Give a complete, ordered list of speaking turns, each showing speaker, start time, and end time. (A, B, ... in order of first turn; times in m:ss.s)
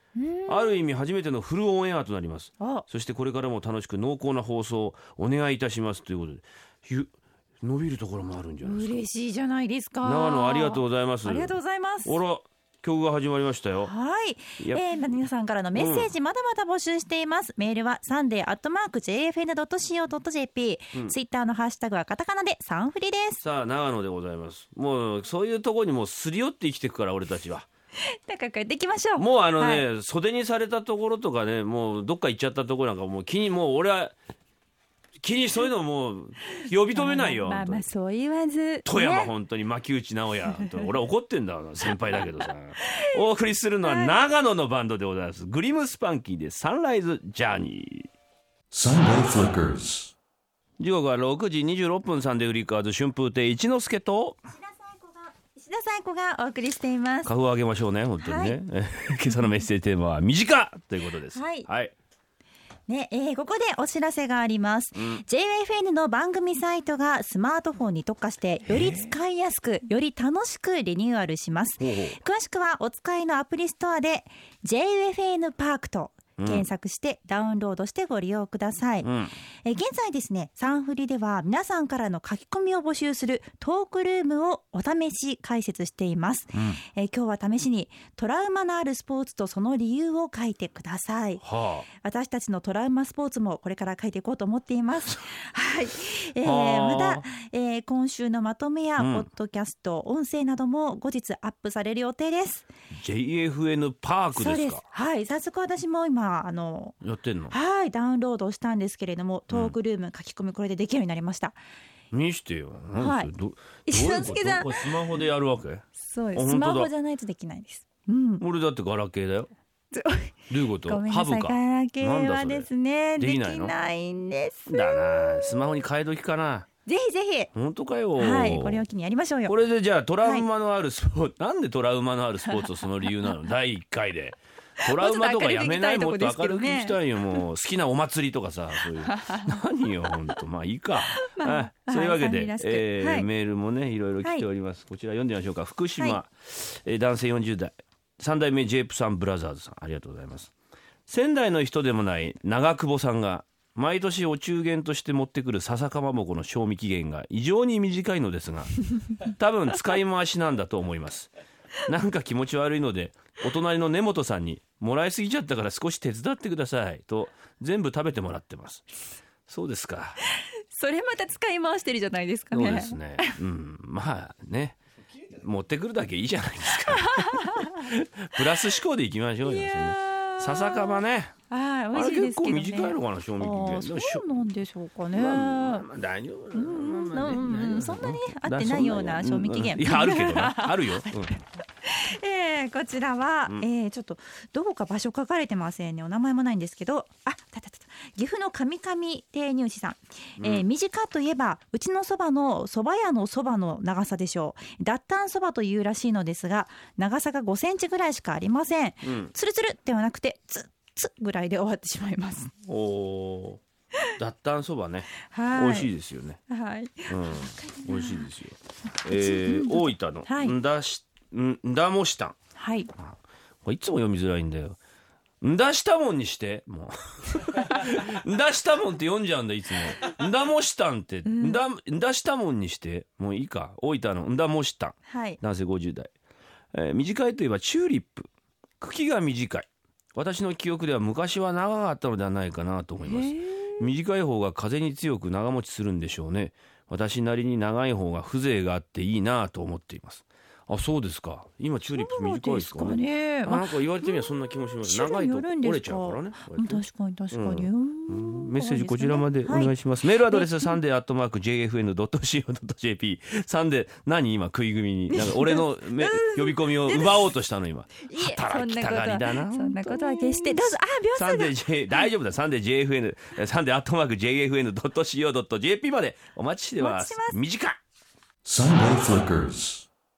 0:00.2-0:00.8 A
0:00.5-0:09.0 B
0:02.6-0:02.9 A
0:08.6-0:12.2 A
0:10.0-0:13.9 B
0:13.8-0:23.4 A
0:14.6-0:14.8 B
0:15.8-0:16.1 B
0:23.4-0:27.7 B
0:28.3-0:29.9 A
0:29.2-0:34.1 B
0:35.2-0:37.9 B
0:36.6-0:39.3 A
0:38.8-0:48.1 B
0:40.5-0:40.9 A
0:42.8-0:43.1 A
0:43.8-0:44.2 A
0:48.7-0:50.1 C
0:50.8-0:54.4 B
0:54.6-0:57.3 A
0:57.2-1:01.9 B
0:58.2-0:58.6 A
1:01.3-1:01.7 A
1:02.9-1:19.1 A
1:05.0-1:05.2 B
1:08.7-1:09.1 B
1:11.8-1:12.2 B
1:16.4-1:16.7 B
1:19.0-1:19.3 B
1:19.6-1:31.4 A
1:26.6-1:26.8 B
1:31.4-1:31.9 B
1:32.0-1:42.7 A
1:36.4-1:37.3 B
1:39.0-1:39.3 B
1:42.9-1:44.8 B
1:44.3-1:47.0 A
1:47.0-1:47.6 B
1:47.5-1:51.6 A
1:49.5-1:49.8 B
1:52.1-1:56.9 B
1:53.0-1:53.3 A
1:53.9-1:54.9 A
1:56.0-1:58.4 A
1:58.4-1:59.5 B
1:59.9-2:05.6 A
2:00.5-2:02.7 B
2:03.2-2:03.7 B
2:04.7-2:06.7 B
2:06.9-2:07.5 A
2:07.5-2:08.8 B
2:08.2-2:09.6 A
2:09.5-2:30.5 B
2:12.4-2:13.3 A
2:14.8-2:17.4 A
2:19.0-2:19.6 A
2:21.2-2:23.3 A
2:31.1-2:41.3 B
2:41.8-2:48.8 B
2:49.5-2:50.2 B
2:50.4-2:53.4 A
2:52.5-2:54.8 B
2:55.3-3:01.3 B
2:57.1-2:57.8 A
2:59.4-3:05.9 A
3:01.9-3:04.2 B
3:05.1-3:11.3 B
3:06.5-3:32.5 A
3:20.4-3:20.6 B
3:29.0-3:29.3 B
3:32.7-3:33.6 B
3:34.1-3:36.4 B
3:35.2-3:35.9 A
3:36.5-3:38.3 A
3:37.1-3:42.4 B
3:39.0-3:40.6 A
3:42.6-3:42.9 A
3:43.0-3:44.8 B
3:45.4-3:56.1 B
3:51.2-3:51.6 A
3:55.1-3:55.4 A
3:56.7-3:58.3 B
3:58.8-4:37.8 B
4:03.0-4:03.8 A
4:11.9-4:20.8 A
4:25.1-4:27.3 A
4:28.0-4:32.1 A
4:36.8-4:37.4 A
4:38.4-4:39.8 C